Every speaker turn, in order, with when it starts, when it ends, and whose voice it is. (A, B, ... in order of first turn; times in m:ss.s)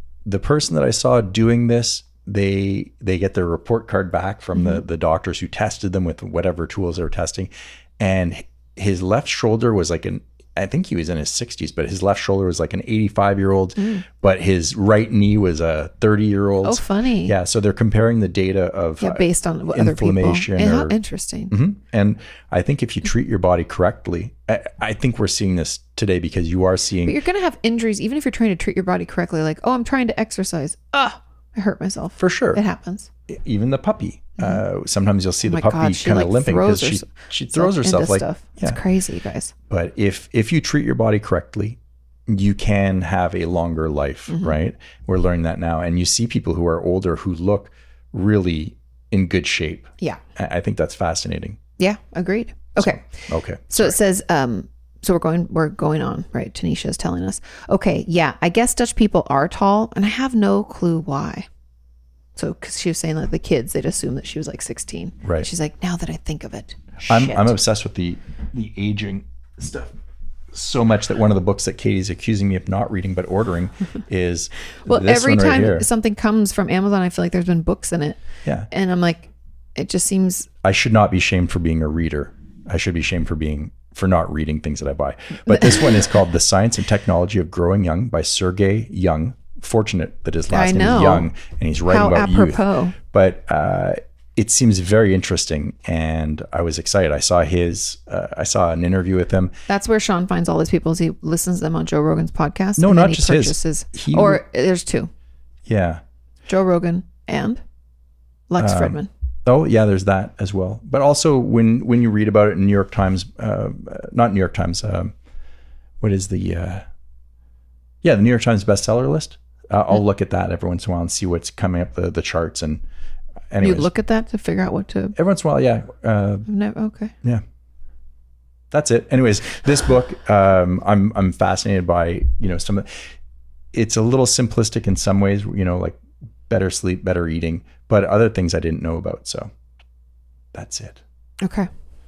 0:00.2-0:21.0 A
0:04.5-0:04.8 B
0:13.8-0:14.0 B
0:16.6-0:17.4 B
0:19.0-0:21.5 B
0:21.5-0:27.2 A
0:27.0-0:33.1 B
0:32.2-0:32.6 A
0:33.3-0:38.8 A
0:35.4-0:39.5 B
0:39.7-0:51.6 A
0:44.3-0:44.5 B
0:51.8-0:53.1 B
0:52.8-0:54.0 A
0:53.7-1:01.5 B
1:02.4-1:07.6 B
1:07.1-1:09.9 A
1:10.5-1:15.9 A
1:14.9-1:20.5 B
1:20.6-1:39.5 A
1:25.5-1:26.0 B
1:30.5-1:31.3 B
1:31.9-1:33.0 B
1:39.7-1:45.1 B
1:42.8-1:44.4 A
1:45.7-1:46.0 A
1:46.5-1:47.6 B
1:48.5-1:49.1 B
1:48.6-1:55.1 A
1:56.0-1:56.8 A
1:58.0-2:02.8 A
2:03.5-2:03.9 A
2:03.6-2:05.2 B
2:05.2-2:06.5 A
2:06.5-2:07.2 B
2:08.7-2:13.0 A
2:13.7-2:19.5 A
2:20.5-2:21.0 A
2:21.4-2:21.7 B